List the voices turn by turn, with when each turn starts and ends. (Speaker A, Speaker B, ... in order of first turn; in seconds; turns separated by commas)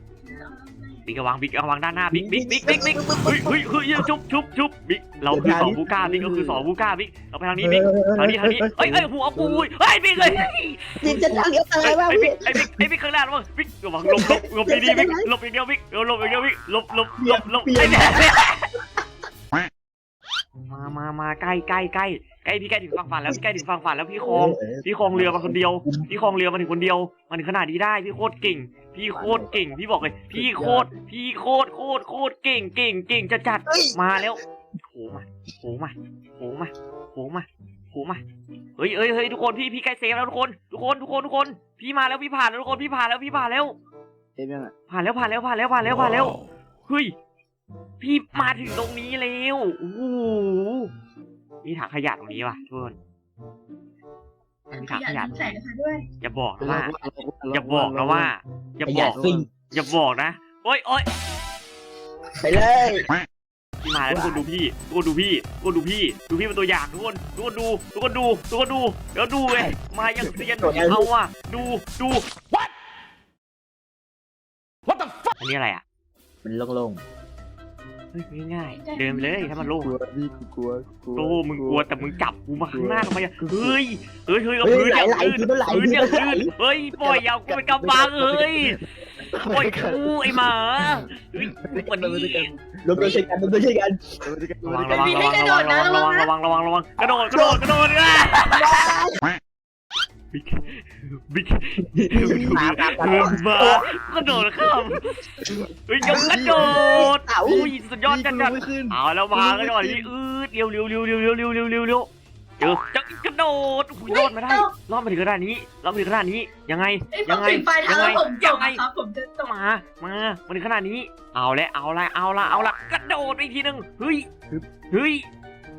Speaker A: 0.2-1.0, Speaker B: 1.0-18.7, Speaker C: 2.1-4.1, Speaker C: 5.3-5.8, Speaker D: 5.4-6.7, Speaker C: 7.6-9.1, Speaker D: 9.3-9.6, Speaker C: 11.0-12.8, Speaker C: 14.0-15.3, Speaker C: 17.2-18.3, Speaker B: 20.7-38.2, Speaker C: 24.2-26.1, Speaker C: 29.1-29.5, Speaker D: 30.3-30.9, Speaker C: 33.7-34.0, Speaker B: 38.8-43.7, Speaker D: 44.4-44.7, Speaker B: 44.9-47.1, Speaker B: 48.0-50.9, Speaker B: 51.6-53.0, Speaker A: 54.7-56.0, Speaker B: 54.7-55.3, Speaker B: 56.2-57.0, Speaker D: 56.6-58.3, Speaker B: 57.5-61.1, Speaker C: 58.9-59.5, Speaker D: 58.9-59.5, Speaker C: 62.4-63.0, Speaker B: 63.8-72.2, Speaker C: 64.1-64.4, Speaker D: 64.1-64.4, Speaker C: 70.2-71.1, Speaker B: 75.4-75.8, Speaker C: 76.4-77.0, Speaker B: 78.1-79.9, Speaker A: 78.7-79.7, Speaker D: 79.8-83.8, Speaker B: 81.1-88.8, Speaker C: 84.6-86.5, Speaker D: 85.7-86.0, Speaker D: 86.9-93.3, Speaker B: 89.3-92.6, Speaker C: 92.8-94.2, Speaker D: 94.2-95.3, Speaker B: 94.6-99.0, Speaker A: 94.9-96.3, Speaker C: 97.3-97.6, Speaker C: 98.5-99.2, Speaker B: 100.3-105.2, Speaker C: 101.8-104.5, Speaker D: 102.2-102.6, Speaker D: 105.5-110.1, Speaker B: 105.8-112.1, Speaker C: 106.0-107.6, Speaker B: 112.6-118.8, Speaker A: 114.0-114.7, Speaker A: 117.1-119.5, Speaker B: 119.4-124.2, Speaker B: 124.9-125.2